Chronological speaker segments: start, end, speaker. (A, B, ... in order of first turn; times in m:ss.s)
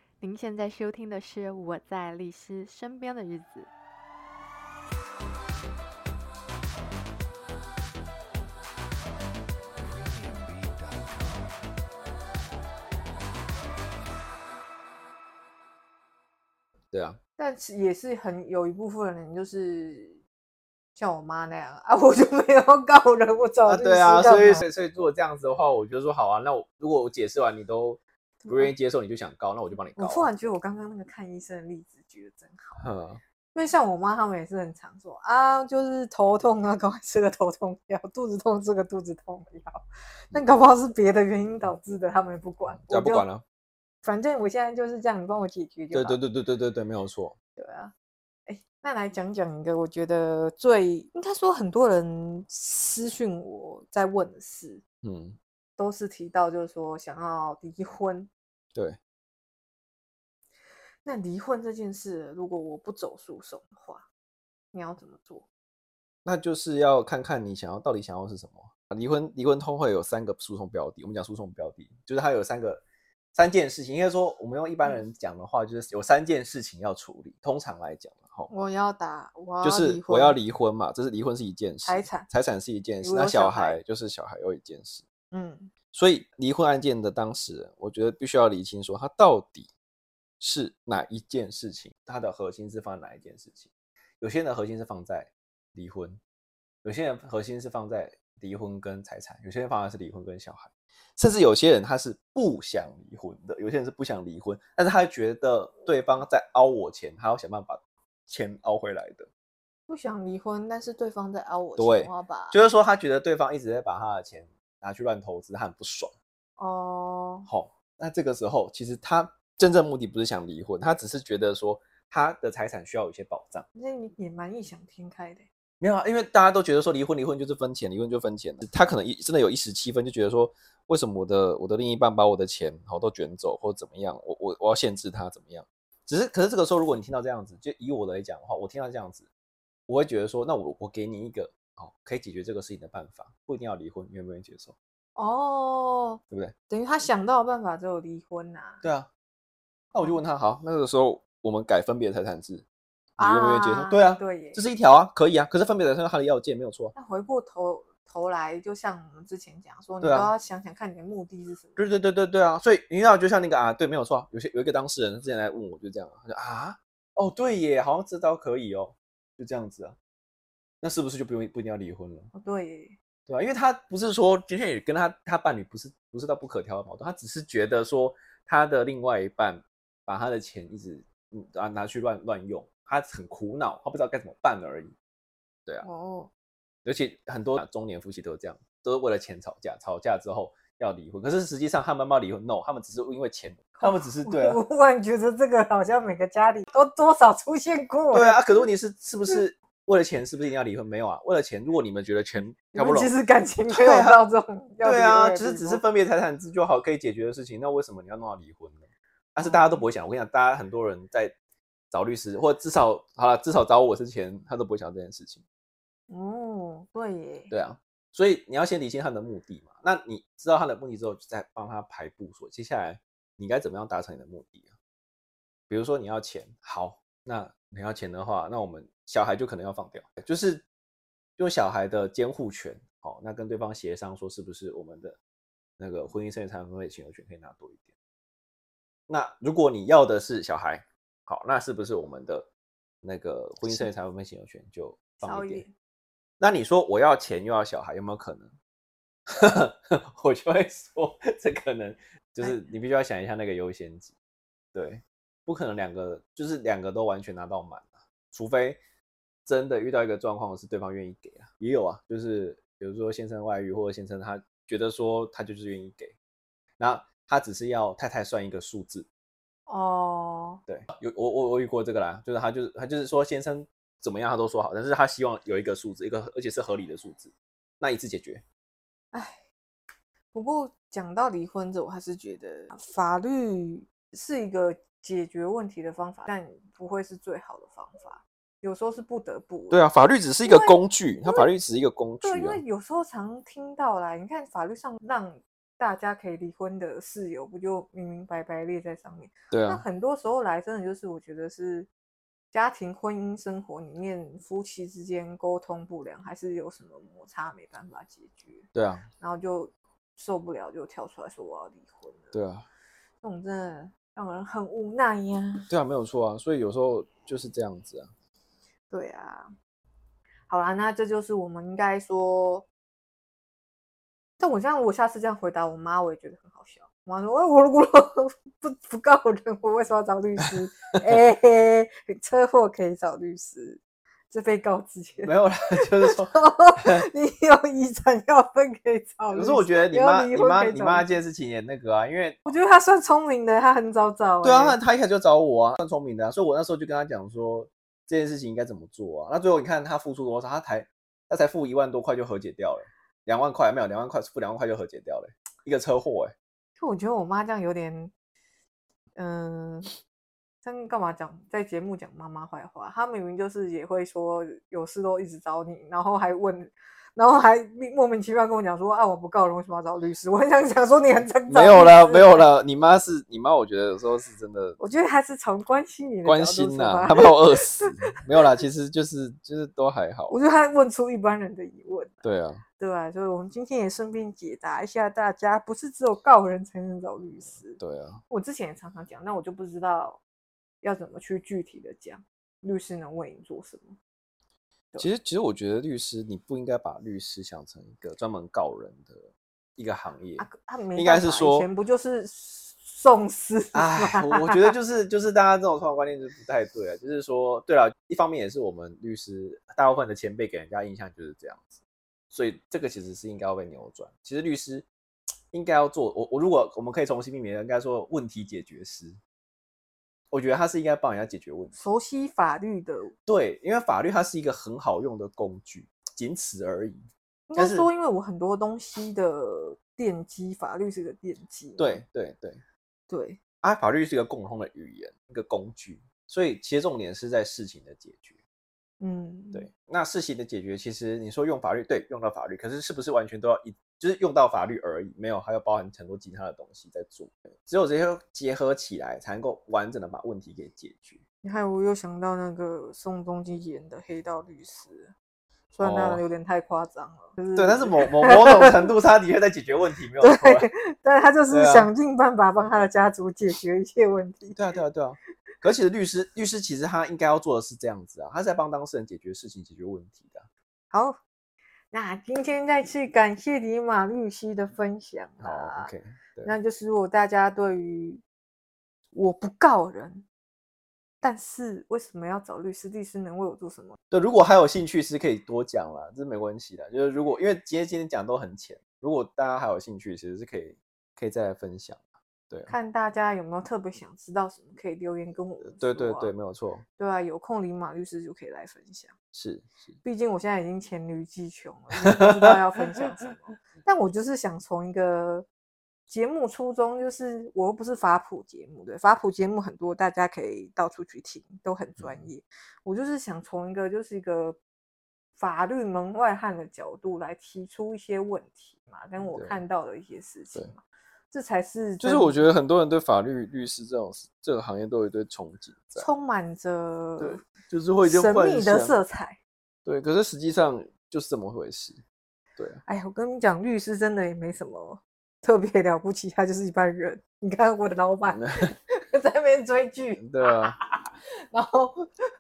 0:00.2-0:03.7 A
0:16.9-0:17.2 B
0:17.4-0:20.2 C
0:21.0-0:24.6 C
0:23.7-0:30.3 B
0:28.4-0:28.7 C
0:30.0-0:32.9 C
0:32.8-0:33.2 B
0:33.5-0:43.3 C
0:42.7-0:43.4 B
0:44.0-0:46.2 C
0:45.9-0:47.4 B
0:47.6-0:47.9 C
0:48.5-0:54.8 C
0:55.0-0:55.4 B
0:55.8-0:58.3 C
1:01.0-1:04.1 C
1:04.7-1:05.5 C
1:06.2-1:12.8 B
1:13.3-1:18.5 B
1:18.5-1:20.4 C
1:19.6-1:25.0 B
1:21.8-1:22.3 C
1:23.0-1:23.8 C
1:25.3-1:25.7 C
1:25.9-1:29.7 B
1:30.4-1:36.2 B
1:36.8-1:49.3 B
1:49.9-1:52.6 C
1:51.8-1:56.1 B
1:56.6-1:57.5 C
1:57.5-2:03.7 B
2:03.8-2:05.5 C
2:05.8-2:19.3 B
2:19.9-2:24.8 B
2:25.2-2:28.8 C
2:28.8-2:29.1 B
2:29.9-2:32.6 B
2:33.2-2:36.9 B
2:33.2-2:34.6 C
2:37.0-2:41.8 C
2:40.0-2:40.3 B
2:41.8-2:50.0 B
2:50.8-2:52.3 B
2:52.3-2:53.0 C
2:53.3-3:04.9 B
3:05.8-3:06.3 C
3:06.8-3:14.6 B
3:13.8-3:18.7 C
3:18.1-3:23.1 B
3:22.7-3:25.8 C
3:23.7-3:24.2 B
3:24.8-3:31.3 B
3:29.4-3:29.9 C
3:31.9-3:35.4 B
3:36.1-3:37.5 C
3:37.5-3:44.7 B
3:45.7-3:50.6 B
3:51.4-3:55.2 B
3:55.8-3:57.9 B
3:59.1-4:02.5 B
4:03.0-4:05.6 B
4:03.6-4:03.9 C
4:05.2-4:05.7 C
4:06.4-4:08.5 B
4:09.3-4:14.1 B
4:14.7-4:18.8 B
4:19.5-4:26.2 B
4:26.8-4:29.1 B
4:29.7-4:30.6 C
4:30.7-4:38.4 B
4:39.1-4:39.4 C
4:40.3-4:49.8 C
4:49.7-4:52.6 B
4:50.4-4:51.5 C
4:52.2-5:01.9 C
4:59.5-4:59.8 B
5:02.5-5:12.4 C
5:08.7-5:09.1 B
5:12.3-5:12.7 B
5:13.2-5:15.7 C
5:15.7-5:18.1 B
5:18.9-5:19.5 C
5:20.5-5:22.7 C
5:24.4-5:41.1 C
5:35.2-5:37.1 B
5:39.3-5:42.4 B
5:42.5-5:44.8 C
5:44.4-5:56.3 B
5:56.8-5:58.1 C
5:59.2-6:00.0 C
6:00.6-6:12.5 C
6:11.5-6:14.8 B
6:14.8-6:18.0 C
6:16.2-6:20.4 B
6:20.3-6:22.2 C
6:22.2-6:22.6 B
6:22.8-6:30.2 C
6:27.8-6:28.2 B
6:30.8-6:34.0 C
6:35.0-6:41.7 B
6:40.4-6:44.8 C
6:43.7-6:54.9 B
6:55.5-6:59.2 B
7:00.3-7:01.7 B
7:01.7-7:03.1 C
7:03.3-7:07.0 B
7:07.5-7:12.0 C
7:07.6-7:07.9 B
7:11.8-7:12.6 B
7:13.1-7:13.4 C
7:13.6-7:18.4 B
7:19.0-7:19.7 C
7:19.5-7:31.2 B
7:31.4-7:35.1 C
7:35.7-7:38.9 C
7:35.8-7:36.2 B
7:37.6-7:40.7 B
7:40.2-7:44.6 C
7:41.5-7:41.9 B
7:44.6-7:50.5 B
7:50.9-7:51.2 C
7:51.9-7:58.2 C
7:55.4-7:56.5 B
7:59.1-8:00.3 C
8:01.2-8:04.0 C
8:04.1-8:12.7 B
8:12.7-8:16.4 C
8:15.6-8:16.8 B
8:17.0-8:19.1 C
8:19.3-8:20.0 B
8:20.0-8:25.5 C
8:22.0-8:23.0 B
8:26.1-8:34.6 C
8:32.0-8:32.2 B
8:35.4-8:42.5 C
8:39.2-8:39.6 B
8:42.0-8:46.1 B
8:46.0-8:47.4 C
8:47.2-8:49.0 B
8:48.0-8:49.4 C
8:49.8-8:52.0 B
8:52.9-9:02.1 C
8:58.3-8:58.7 B
9:00.2-9:00.8 B